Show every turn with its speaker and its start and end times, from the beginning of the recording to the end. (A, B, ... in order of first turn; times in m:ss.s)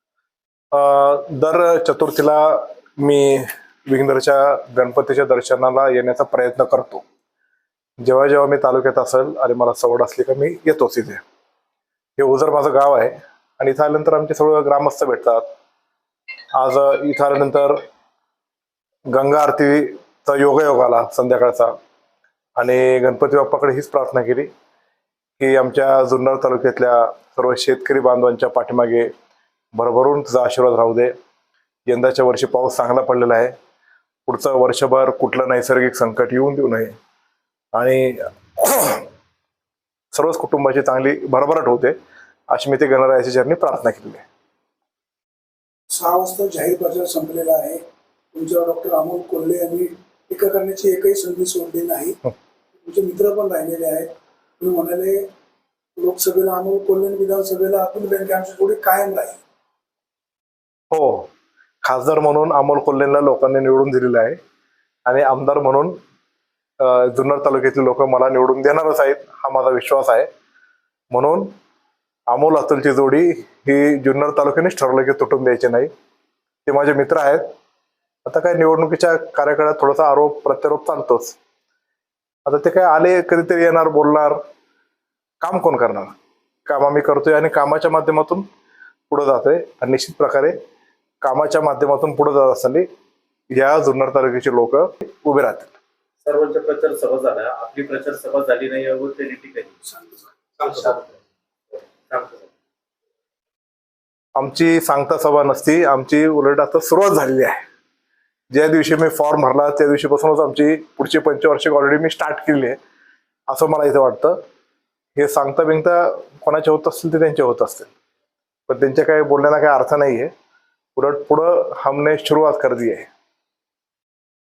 0:00.7-0:07.0 A
0:08.0-0:11.2 A
0:12.2-0:15.4 A
0:16.6-0:17.8 A
0:19.1-0:21.7 A
0:22.6-0:24.5 A
0:25.4-0:29.1 A
0:29.7-0:31.1 A
0:31.9-0:33.5 A
0:34.3-0:36.9 A
0:37.7-0:39.1 A
0:40.1-0:42.0 A
0:42.5-0:44.2 A
0:45.9-0:47.8 B
0:48.3-0:52.2 B
0:52.8-0:55.2 B
0:56.0-0:59.4 B
1:00.9-1:01.3 A
1:01.8-1:04.4 A
1:05.0-1:06.0 A
1:06.8-1:10.3 A
1:11.1-1:11.5 A
1:12.3-1:15.9 A
1:16.6-1:17.4 A
1:18.2-1:21.4 A
1:22.4-1:24.4 A
1:25.4-1:26.1 A
1:26.7-1:28.4 A
1:29.1-1:30.6 A
1:31.2-1:32.9 A
1:33.5-1:35.7 A
1:36.2-1:39.8 C
1:39.9-1:40.9 B
1:40.6-1:41.2 C
1:41.7-1:42.5 C
1:44.4-1:47.6 A
1:48.5-1:52.8 A
1:53.5-1:54.4 A
1:55.2-1:57.9 A
1:58.7-2:00.3 A
2:01.0-2:03.0 A